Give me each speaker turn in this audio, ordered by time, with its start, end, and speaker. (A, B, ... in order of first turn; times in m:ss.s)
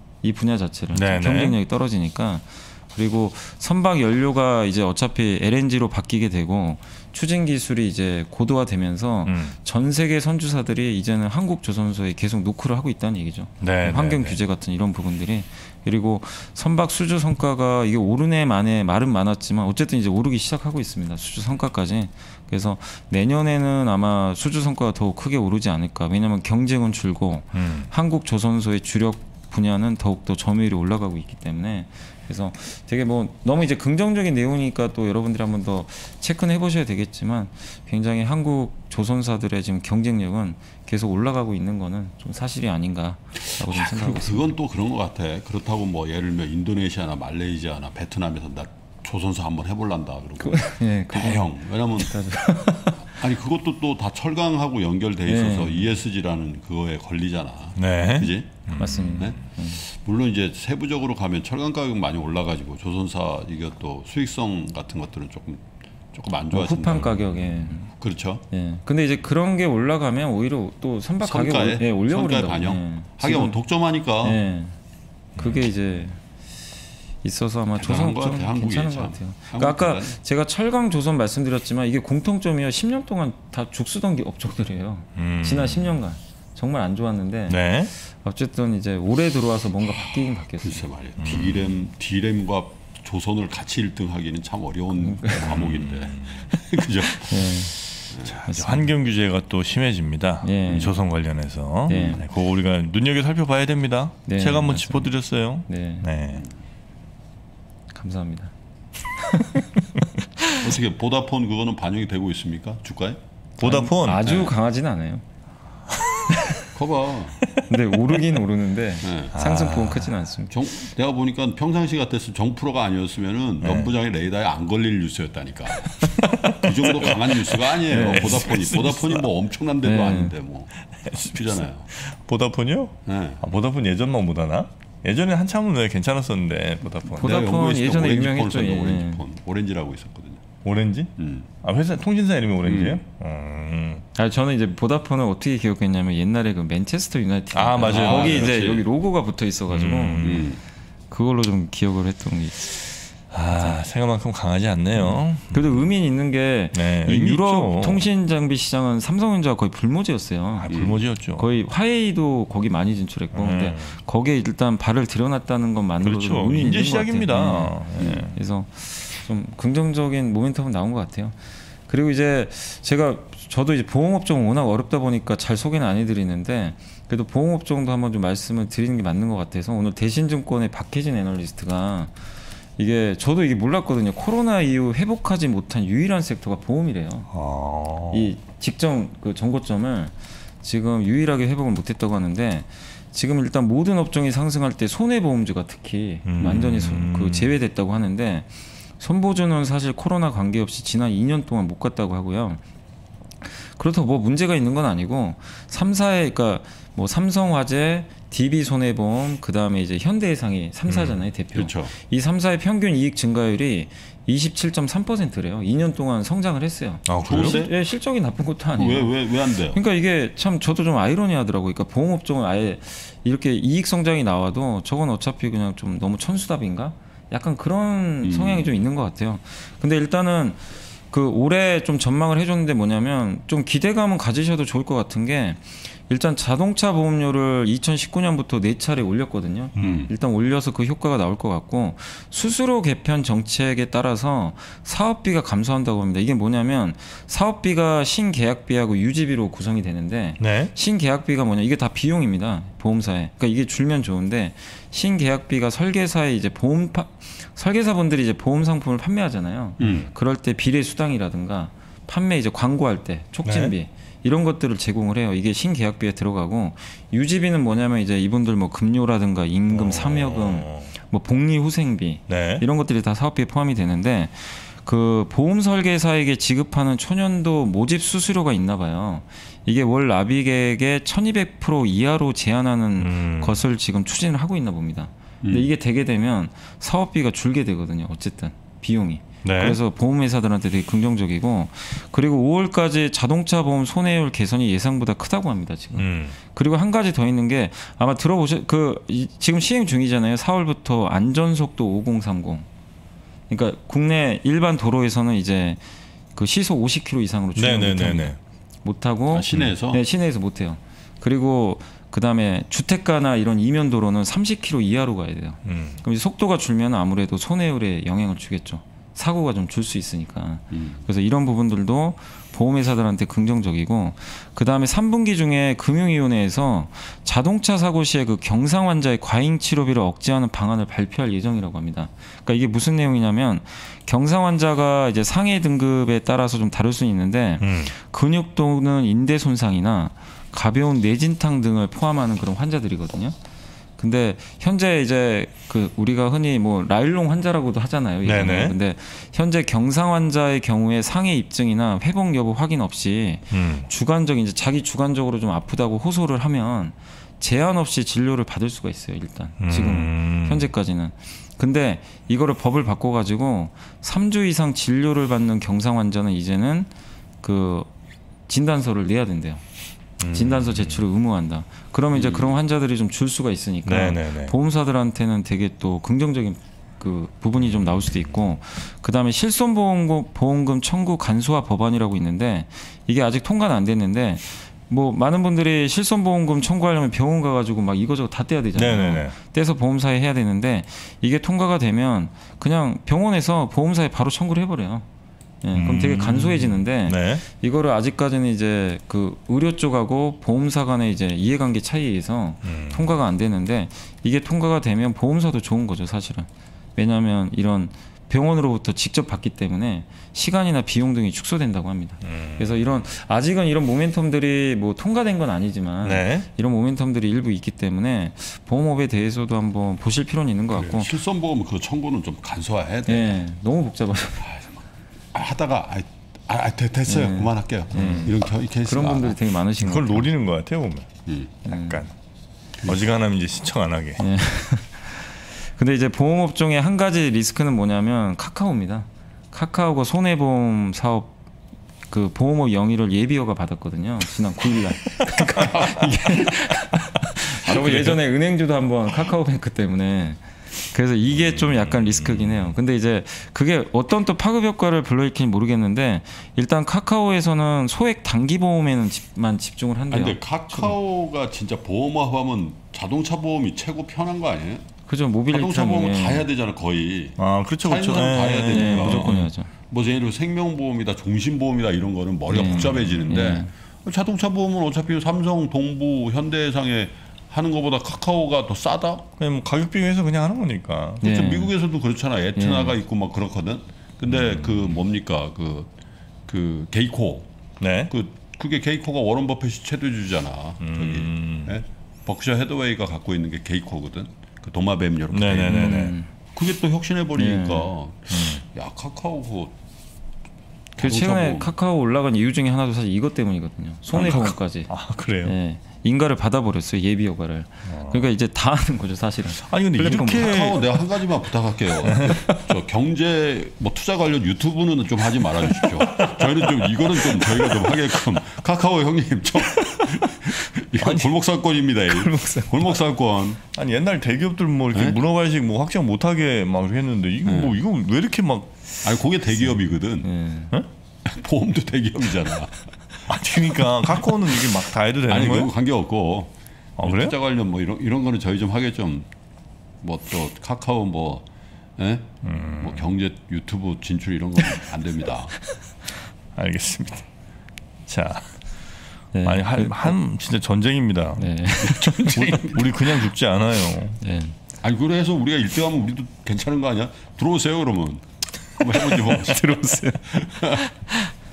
0:00.2-0:44.6 A
0:00.9-0:01.6 B
0:09.2-0:09.6 B
0:13.6-0:14.4 B
0:27.5-0:27.9 B
0:43.4-0:52.2 C
0:50.4-0:53.1 A
0:53.0-1:07.4 C
0:55.3-0:55.8 A
0:57.8-0:59.4 B
0:58.8-0:59.8 A
1:06.5-1:07.9 A
1:07.9-1:08.4 C
1:08.5-1:13.6 A
1:11.2-1:14.4 C
1:14.2-1:14.8 A
1:15.4-1:15.6 B
1:15.4-1:16.2 A
1:17.2-1:30.8 A
1:17.8-1:20.2 C
1:25.2-1:26.0 B
1:27.5-1:27.9 B
1:30.6-1:38.4 C
1:31.2-1:31.8 B
1:35.0-1:35.7 A
1:35.4-1:36.6 B
1:37.2-1:38.9 A
1:38.2-1:46.4 B
1:40.4-1:41.0 A
1:41.9-1:42.2 A
1:41.9-1:42.2 C
1:44.3-1:45.1 A
1:45.7-1:46.1 A
1:47.9-1:48.5 A
1:49.2-1:49.6 A
1:50.6-1:53.2 C
1:53.6-1:54.3 B
1:53.6-1:55.2 A
1:54.2-1:54.5 C
1:55.9-1:56.3 B
1:56.7-1:57.4 C
1:57.5-1:58.3 B
1:57.7-2:00.6 A
1:59.0-1:59.4 C
1:59.3-2:00.1 B
2:00.5-2:10.7 C
2:03.6-2:03.9 B
2:06.0-2:09.3 B
2:07.9-2:08.5 A
2:09.8-2:10.4 A
2:10.8-2:17.4 B
2:11.3-2:11.9 C
2:13.1-2:13.4 C
2:17.2-2:20.4 C
2:17.2-2:19.2 A
2:20.6-2:24.0 B
2:21.2-2:21.5 C
2:22.6-2:23.0 C
2:24.2-2:30.5 A
2:27.5-2:28.6 B
2:27.8-2:28.9 C
2:29.7-2:30.5 B
2:30.2-2:30.6 C
2:31.1-2:32.8 A
2:33.3-2:35.9 B
2:35.0-2:40.7 A
2:36.7-2:38.0 B
2:40.6-2:41.4 B
2:40.7-2:41.0 C
2:41.4-2:47.8 A
2:43.3-2:44.0 B
2:46.0-2:48.4 B
2:48.0-2:48.3 C
2:48.3-3:02.2 A
3:02.8-3:07.3 A
3:07.3-3:08.3 B
3:08.1-3:22.6 A
3:16.2-3:17.6 B
3:23.4-3:39.2 A
3:30.9-3:31.2 B
3:31.5-3:31.9 C
3:37.1-3:37.6 B
3:37.3-3:37.8 C
3:38.8-3:39.8 C
3:39.7-5:02.7 A
3:48.2-3:48.8 C
3:59.8-4:00.1 B
3:59.8-4:00.1 C
4:10.4-4:10.7 B
4:19.8-4:20.1 C
4:23.4-4:23.7 B
4:29.7-4:30.9 B
4:32.3-4:32.6 B
4:43.0-4:43.6 B
4:45.4-4:45.7 C
4:49.4-4:49.8 B
4:56.0-4:56.4 B
5:03.5-5:05.8 A
5:06.4-5:43.4 A
5:07.6-5:08.4 B
5:09.3-5:10.0 C
5:15.6-5:16.0 B
5:20.7-5:21.0 C
5:37.6-5:37.9 B
5:44.0-6:06.9 A
5:48.2-5:48.8 B
5:53.5-5:53.9 B
5:59.6-6:00.7 B
6:07.4-6:07.9 A
6:08.5-6:09.6 A
6:10.2-6:11.0 B
6:10.3-6:35.1 A
6:12.1-6:12.5 C
6:13.9-6:14.6 B
6:17.6-6:18.1 B
6:28.8-6:29.4 B
6:35.6-7:01.1 A
6:35.7-6:37.4 B
6:42.6-6:43.1 B
6:52.2-6:53.1 B
6:56.0-6:56.5 B
7:00.7-7:03.4 C
7:03.1-7:04.5 A
7:04.4-7:04.8 C
7:05.3-7:09.4 C
7:07.1-7:10.3 A
7:07.9-7:08.3 B
7:09.8-7:12.1 B
7:11.3-7:11.5 C
7:11.6-7:12.0 A
7:12.8-7:14.2 B
7:14.2-7:21.4 A
7:22.1-7:40.9 A
7:25.6-7:26.1 C
7:27.7-7:28.2 B
7:27.7-7:28.1 C
7:31.3-7:32.8 B
7:40.1-7:44.9 C
7:45.1-7:46.5 A
7:45.5-7:59.3 C
7:47.4-7:49.5 B
7:48.6-7:49.7 A
7:52.5-7:53.7 A
7:52.8-7:53.2 B
7:59.4-8:01.2 B
8:01.2-8:05.9 C
8:01.2-8:01.7 A
8:02.6-8:03.0 A
8:04.2-8:05.0 B
8:06.5-8:07.5 C
8:07.8-8:08.1 B
8:08.1-8:19.8 C
8:10.8-8:11.8 B
8:15.3-8:16.2 B
8:15.7-8:16.3 A
8:17.4-8:17.9 A
8:18.3-8:18.6 B
8:21.0-8:21.7 C
8:21.0-8:24.9 A
8:24.1-8:25.5 B
8:25.4-8:30.7 A
8:27.9-8:28.3 B
8:29.6-8:30.8 B
8:30.0-8:43.6 C
8:32.1-8:32.6 B
8:35.7-8:38.2 B
8:39.8-8:40.5 B
8:41.0-8:41.3 B
8:42.2-8:42.7 A
8:43.7-8:48.8 B
8:47.5-8:47.8 C
8:49.0-8:50.3 C
8:50.2-8:50.7 A
8:51.2-8:52.9 C
8:53.3-8:55.7 B
8:55.3-8:59.3 C
8:57.0-8:57.4 B
9:00.0-9:01.4 C
9:02.0-9:05.6 C
9:02.4-9:03.0 B
9:06.6-9:07.3 B
9:08.1-9:08.6 B
9:09.3-9:10.2 A
9:09.4-9:11.6 B
9:11.4-9:12.6 A
9:11.8-9:13.0 C
9:12.4-9:14.2 B
9:14.2-9:14.6 A
9:14.8-9:19.7 C
9:19.3-9:21.2 A
9:20.3-9:20.8 C